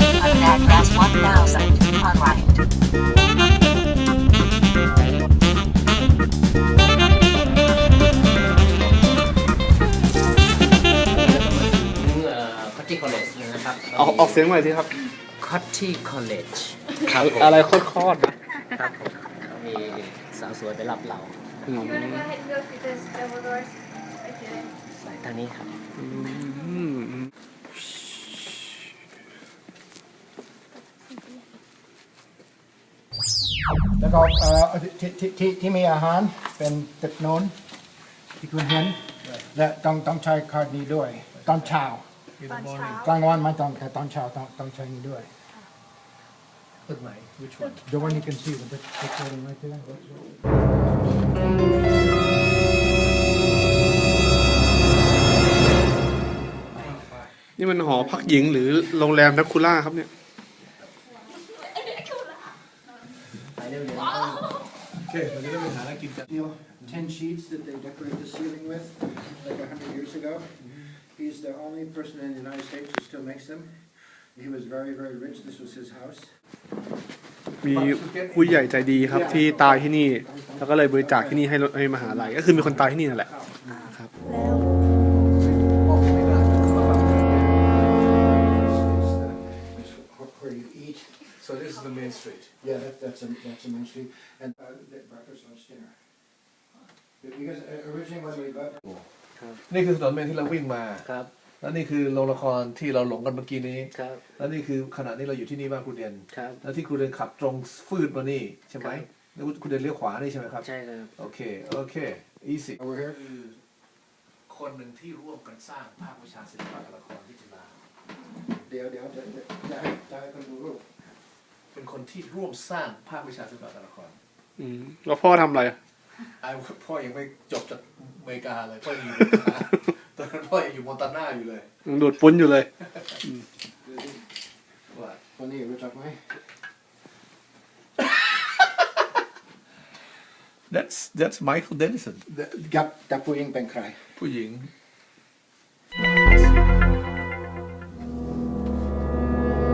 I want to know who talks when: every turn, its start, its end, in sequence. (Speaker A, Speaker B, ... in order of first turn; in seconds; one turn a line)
Speaker A: 0.2-2.6
Speaker B: 11.0-14.4
Speaker C: 13.9-14.9
Speaker B: 15.4-17.7
Speaker C: 17.2-18.3
Speaker B: 18.8-21.4
Speaker C: 21.7-22.3
Speaker D: 21.8-24.7
Speaker B: 24.9-25.7
Speaker C: 26.0-27.3
Speaker E: 34.0-37.5
Speaker E: 38.4-42.0
Speaker F: 41.4-41.7
Speaker F: 42.4-43.1
Speaker D: 42.7-43.0
Speaker E: 42.9-45.3
Speaker F: 46.9-47.8
Speaker E: 47.9-50.4
Speaker F: 56.8-57.3
Speaker C: 57.6-60.1
Speaker E: 57.8-58.6
Speaker E: 63.6-64.4
Speaker F: 65.0-66.2
Speaker E: 66.3-70.5
Speaker E: 71.1-73.8
Speaker E: 74.3-76.3
Speaker C: 77.6-84.1
Speaker F: 77.6-78.9
Speaker E: 78.9-83.7
Speaker F: 85.4-87.5
Speaker E: 87.5-91.2
Speaker F: 91.4-92.5
Speaker E: 92.6-96.0
Speaker E: 97.2-99.0
Speaker B: 99.4-99.6
Speaker F: 99.7-101.0
Speaker B: 101.0-101.3
Speaker F: 101.6-110.7
Speaker B: 103.9-104.2
Speaker B: 106.3-106.6
Speaker B: 110.6-111.1
Speaker F: 111.2-113.6
Speaker E: 112.8-113.2
Speaker F: 114.5-117.8
Speaker E: 118.6-120.9
Speaker F: 121.7-124.2
Speaker C: 124.6-125.8
Speaker F: 126.4-131.7
Speaker C: 131.8-132.7
Speaker E: 133.8-134.2
Speaker F: 134.9-135.2
Speaker E: 135.3-136.2
Speaker F: 140.7-142.2
Speaker E: 142.3-144.0
Speaker F: 144.2-144.7
Speaker F: 146.0-146.5